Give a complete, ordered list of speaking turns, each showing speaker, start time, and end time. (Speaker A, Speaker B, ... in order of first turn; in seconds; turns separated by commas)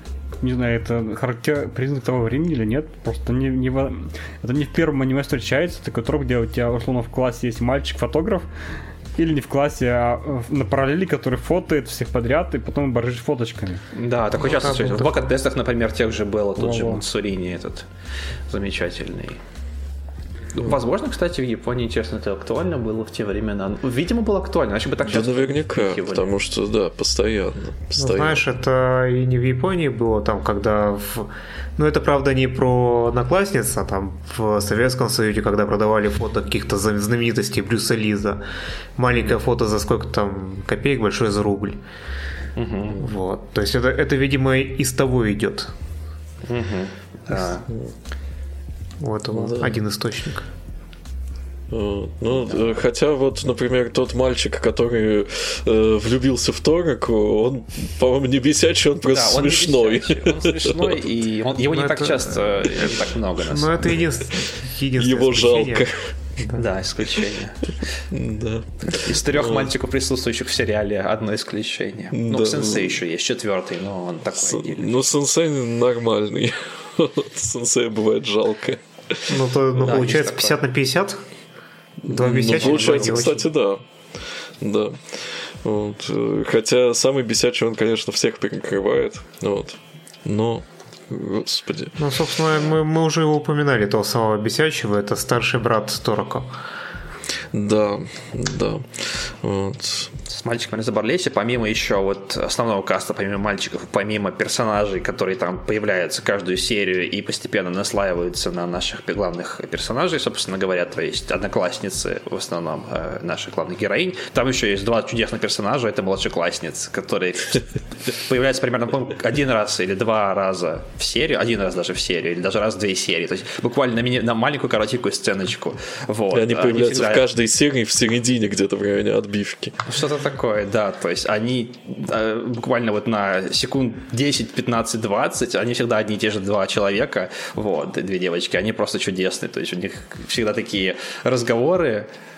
Speaker A: 0.4-8.5, Speaker A: 9.2-13.8, Speaker B: 13.9-17.9, Speaker C: 14.4-15.2, Speaker A: 16.6-17.1, Speaker B: 18.5-19.4, Speaker B: 20.6-26.3, Speaker D: 25.1-28.4, Speaker C: 28.0-38.4, Speaker C: 39.0-41.8, Speaker B: 42.6-43.1, Speaker C: 43.0-45.7, Speaker B: 46.5-47.6, Speaker C: 49.0-50.5, Speaker D: 49.4-49.7, Speaker D: 51.7-61.0, Speaker B: 52.4-52.8, Speaker B: 59.1-64.1, Speaker C: 61.7-65.9, Speaker D: 65.0-66.1, Speaker C: 66.4-66.7, Speaker B: 66.5-67.6, Speaker D: 68.1-69.7, Speaker B: 68.9-74.9, Speaker D: 72.1-73.0, Speaker D: 74.4-79.3, Speaker C: 79.3-81.2, Speaker B: 79.8-80.6, Speaker C: 82.0-83.5, Speaker D: 82.1-83.8, Speaker B: 82.4-83.3, Speaker D: 84.6-92.0, Speaker C: 92.0-96.5, Speaker D: 97.5-100.1, Speaker B: 100.3-127.2, Speaker D: 126.3-129.8, Speaker B: 129.9-142.1